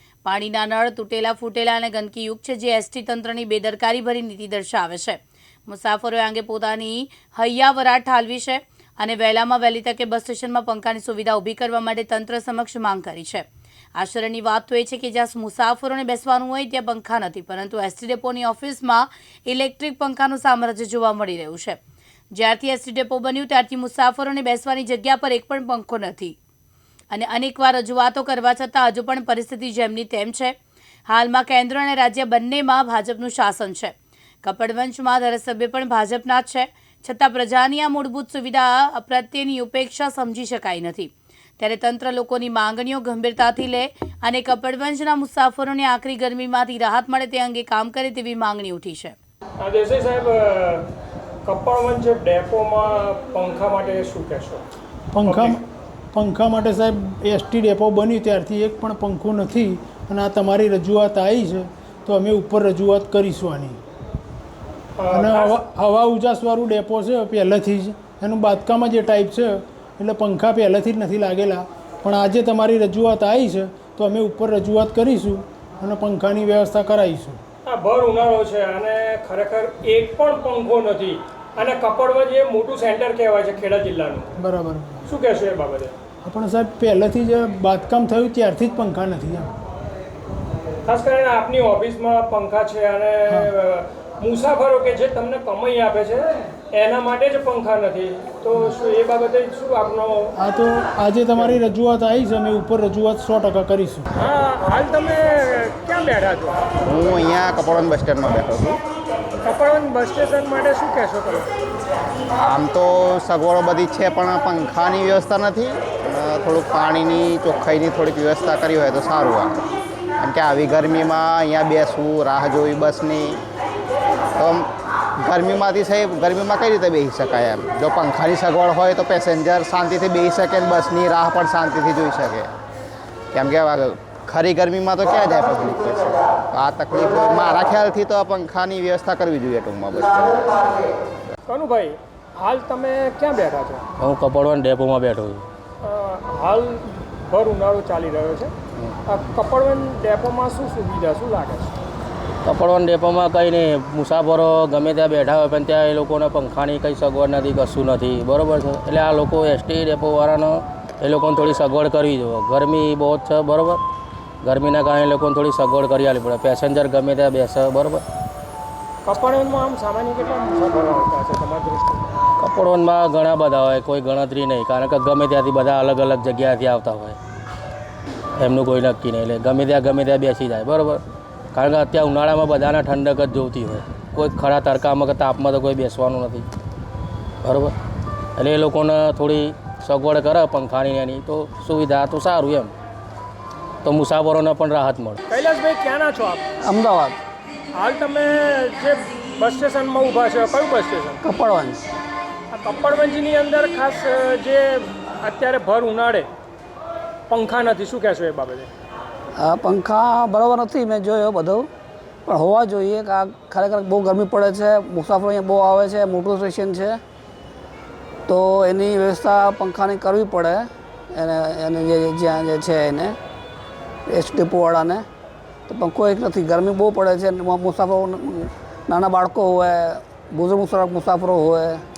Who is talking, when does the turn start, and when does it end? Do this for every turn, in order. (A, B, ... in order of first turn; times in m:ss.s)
0:00.2-0:13.4 A
0:14.0-0:21.8 A
0:22.3-0:26.3 A
0:27.1-0:30.6 A
0:31.1-0:49.2 A
0:49.6-0:50.9 B
0:51.5-0:54.6 B
0:55.1-0:55.6 C
0:55.2-0:55.6 B
0:56.1-1:03.8 C
1:05.0-1:05.6 B
1:05.1-1:17.4 C
1:17.7-1:24.3 B
1:24.4-1:25.0 C
1:25.0-1:26.0 B
1:26.2-1:29.5 C
1:30.9-1:40.4 B
1:40.4-1:44.1 C
1:44.1-1:46.6 B
1:46.8-1:48.8 D
1:49.4-1:51.5 B
1:52.4-1:59.6 D
2:00.2-2:03.4 D
2:04.4-2:04.6 D
2:05.2-2:12.5 D
2:13.3-2:20.7 D
2:21.5-2:23.8 B
2:24.0-2:25.4 E
2:25.8-2:28.5 B
2:29.1-2:31.8 B
2:32.4-2:43.8 E
2:44.4-2:48.0 E
2:49.0-2:52.1 B
2:52.4-2:57.2 E
2:58.4-3:01.0 E
3:01.5-3:06.5 E
3:07.4-3:07.7 E
3:08.4-3:12.7 E
3:13.8-3:15.2 E
3:15.3-3:16.4 B
3:16.6-3:17.2 F
3:17.8-3:21.3 B
3:21.2-3:21.8 F
3:22.5-3:26.3 B
3:27.3-3:28.7 B
3:29.4-3:31.7 F
3:32.3-3:37.0 F
3:38.3-3:43.2 F
3:44.1-3:45.0 F
3:45.7-3:51.8 F